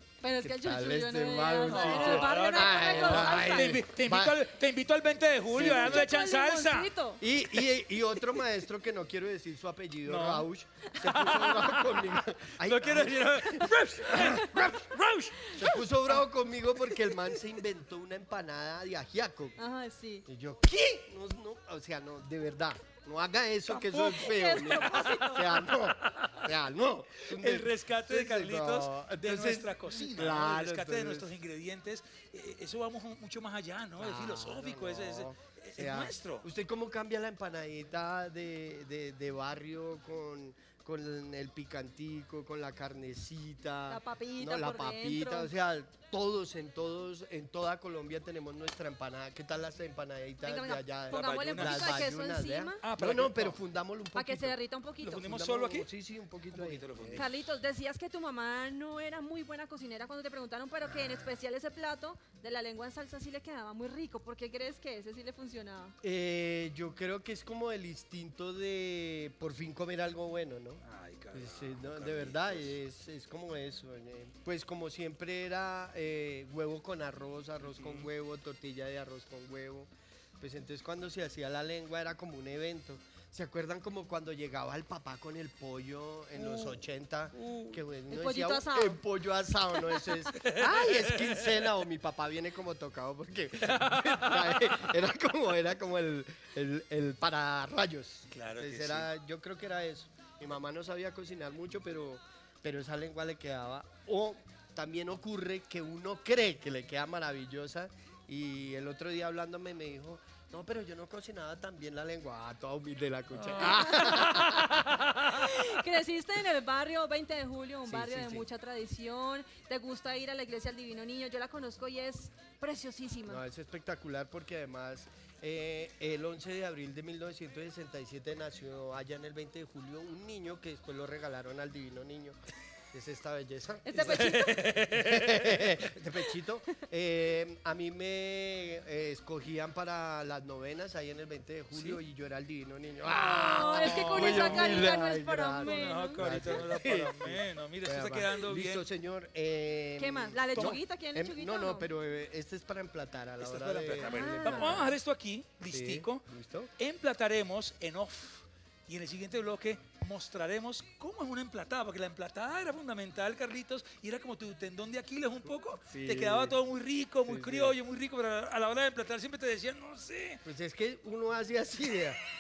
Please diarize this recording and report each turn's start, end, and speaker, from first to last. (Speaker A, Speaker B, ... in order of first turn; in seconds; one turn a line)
Speaker A: 0.2-3.8
Speaker B: 0.4-4.4
Speaker C: 1.7-6.9
Speaker B: 5.5-6.1
Speaker A: 5.5-7.2
Speaker B: 7.2-14.9
Speaker C: 10.1-10.5
Speaker C: 11.0-15.8
Speaker B: 15.4-19.6
Speaker A: 19.6-20.3
Speaker B: 20.3-31.3
Speaker C: 23.7-26.5
Speaker A: 24.1-25.7
Speaker C: 27.3-36.5
Speaker B: 34.0-57.3
Speaker A: 43.9-45.5
Speaker A: 50.4-52.8
Speaker C: 51.1-52.1
Speaker C: 52.8-53.6
Speaker A: 54.1-55.3
Speaker C: 55.0-55.9
Speaker C: 56.5-57.5
Speaker A: 57.1-66.0
Speaker B: 66.0-114.8
Speaker C: 70.8-72.8
Speaker C: 77.6-78.1
Speaker A: 86.4-86.8
Speaker C: 87.4-87.8
Speaker A: 88.1-89.0
Speaker C: 90.3-91.7
Speaker C: 93.6-94.8
Speaker C: 98.3-99.1
Speaker C: 113.4-113.8
Speaker A: 113.6-123.4
Speaker C: 114.4-114.7
Speaker B: 117.9-118.5
Speaker B: 123.3-132.4
Speaker B: 132.9-154.9
Speaker A: 133.8-134.8
Speaker C: 133.9-135.8
Speaker C: 141.7-142.0
Speaker C: 143.1-145.0
Speaker A: 143.5-146.6
Speaker C: 145.6-148.9
Speaker A: 150.0-151.9
Speaker C: 153.4-156.2
Speaker A: 154.0-154.9
Speaker B: 155.7-156.7
Speaker C: 156.8-170.4
Speaker B: 165.9-166.6
Speaker B: 167.3-167.8
Speaker B: 170.4-172.2